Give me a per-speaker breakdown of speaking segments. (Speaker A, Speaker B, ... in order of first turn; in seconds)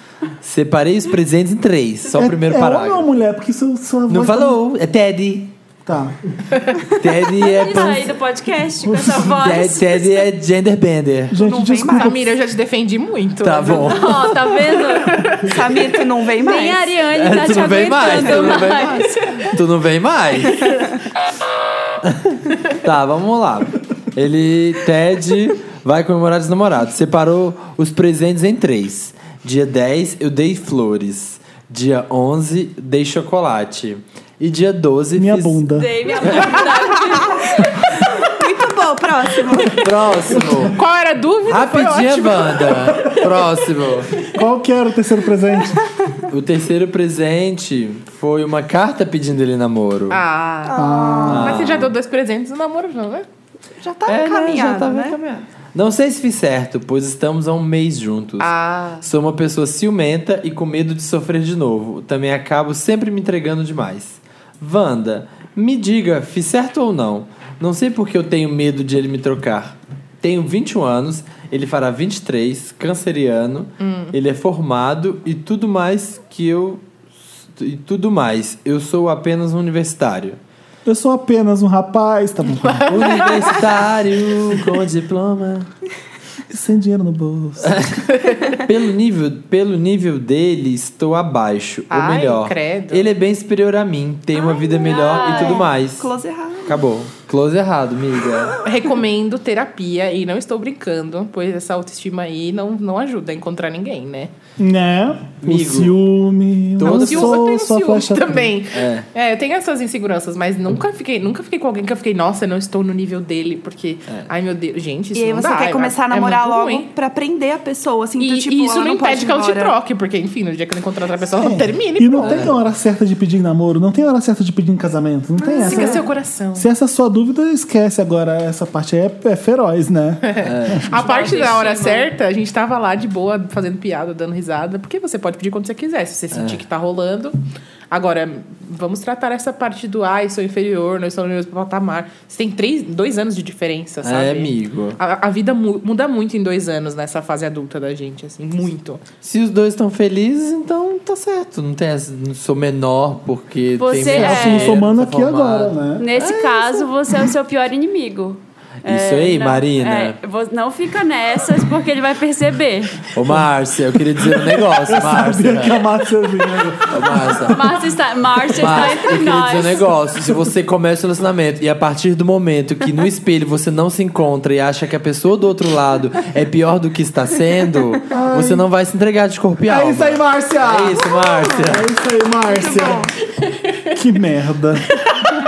Speaker A: 0.4-3.1, 4.1-5.5, 7.0-8.1, 9.4-11.4, 13.4-14.4, 17.1-20.7, 22.0-35.6, 39.8-40.7, 41.5-44.1, 46.3-50.2, 51.3-51.9, 54.0-76.8, 77.5-80.4, 82.9-85.7, 87.6-96.1, 96.6-98.5, 105.4-106.0, 106.8-107.4, 108.7-109.0, 122.2-122.5, 130.4-130.9, 136.3-136.6, 144.0-145.0, 149.2-156.9, 158.8-160.2, 163.1-165.8, 166.9-167.7, 168.5-181.9
Speaker B: 2.1-4.6, 5.8-6.2, 8.9-9.3, 11.3-12.3, 35.1-35.9, 40.3-40.7, 44.3-45.9, 50.7-51.6, 80.8-83.0, 86.5-87.8, 104.6-108.5, 121.4-131.0, 154.0-156.1, 163.9-167.7, 178.1-178.7, 179.7-183.1, 183.9-185.0
Speaker C: 7.3-10.2, 13.8-15.4, 16.4-19.2, 35.7-38.0, 94.7-95.7, 131.1-132.0, 153.8-154.8, 156.0-163.1, 167.5-170.0
Speaker D: 11.4-12.2, 15.4-17.0, 18.2-18.7, 37.0-39.9, 50.6-51.5, 53.8-55.1, 94.5-96.8, 115.1-119.7, 125.4-126.0, 182.5-183.1
Speaker E: 11.8-15.6, 40.7-43.0, 50.1-53.2, 58.4-59.0, 73.8-74.1, 82.6-83.7, 91.9-93.1, 98.6-104.3, 106.8-116.9, 118.2-122.5, 125.5-126.7, 130.2-137.4, 137.9-149.0